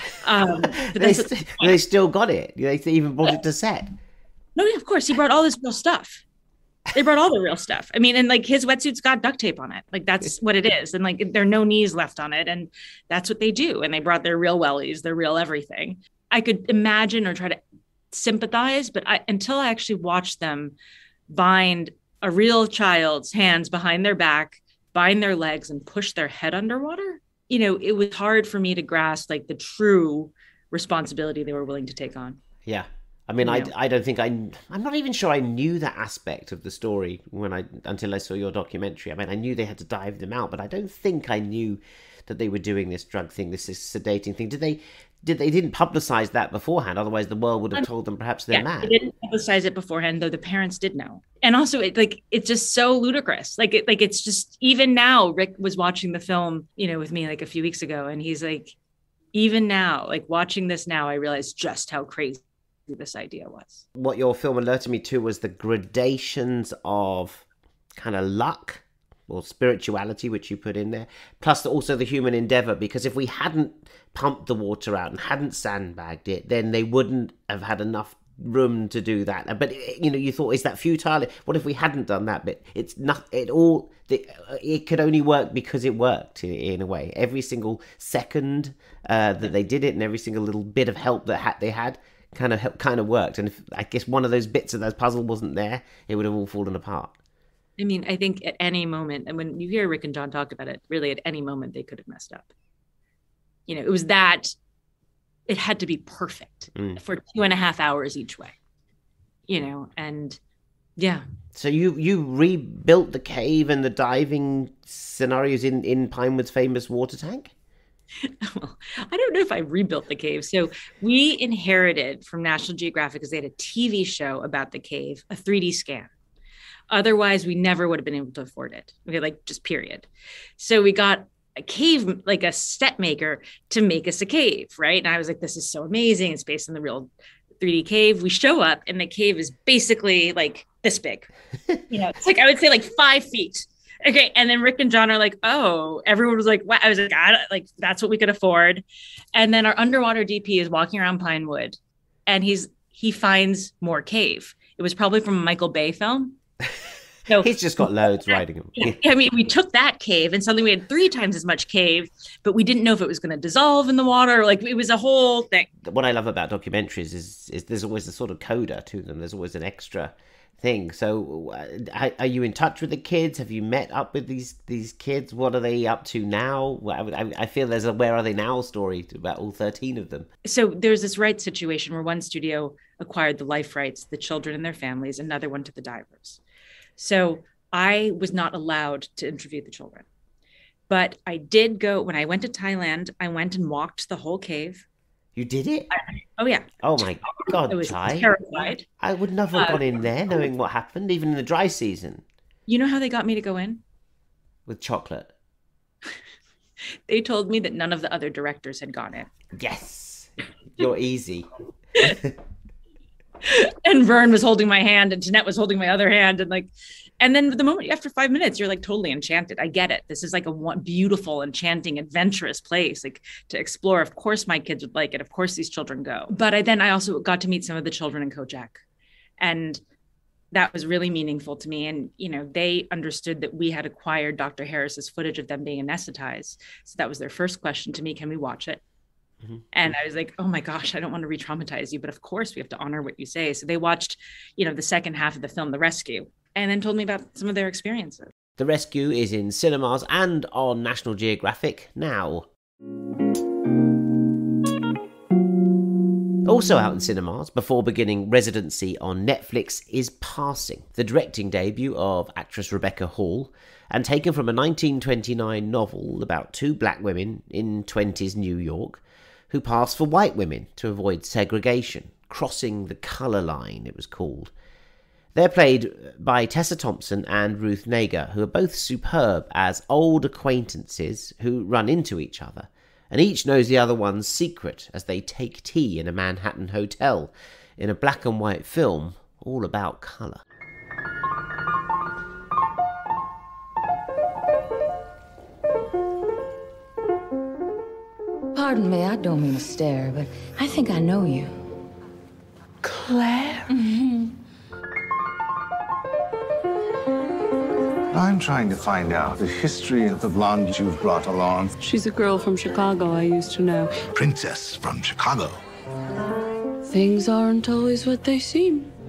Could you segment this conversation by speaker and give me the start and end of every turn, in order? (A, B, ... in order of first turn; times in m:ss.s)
0:00.2-0:01.8 A
0:00.9-0:03.9 B
0:04.6-0:06.2 A
0:06.9-0:17.6 A
0:18.1-0:20.8 A
0:21.3-0:32.4 A
0:32.6-0:49.0 B
0:33.4-0:33.7 A
0:48.5-0:58.8 A
0:59.3-1:03.8 A
1:04.0-1:07.4 B
1:08.0-1:37.2 B
1:37.8-1:42.5 A
1:43.7-1:44.5 A
1:45.5-1:48.6 A
1:46.8-1:47.0 B
1:49.5-1:50.4 A
1:51.0-1:51.2 A
1:51.5-1:57.5 B
1:58.2-2:06.1 A
2:06.9-2:10.1 A
2:10.6-2:21.3 A
2:21.9-2:28.8 A
2:29.4-2:36.4 A
2:37.3-2:45.7 A
2:37.4-2:39.0 B
2:45.8-3:00.3 B
3:00.4-3:06.4 A
3:07.0-3:10.0 A
3:10.9-3:14.8 A
3:15.4-3:15.9 B
3:16.4-3:16.7 A
3:16.8-3:22.2 B
3:17.4-3:18.9 A
3:19.6-3:20.0 A
3:22.7-3:23.8 A
3:24.7-3:25.3 B
3:27.1-3:29.3 A
3:29.5-3:32.4 B
3:33.4-3:48.8 A
3:49.4-3:49.8 A
3:50.5-3:58.8 A
3:59.7-4:08.3 A
4:08.6-4:12.5 B
4:16.4-4:34.5 B
4:35.4-4:50.4 B
4:58.5-5:01.6 C
5:08.1-5:11.7 D
5:11.8-5:13.9 E
5:14.2-5:15.6 D
5:16.9-5:18.9 E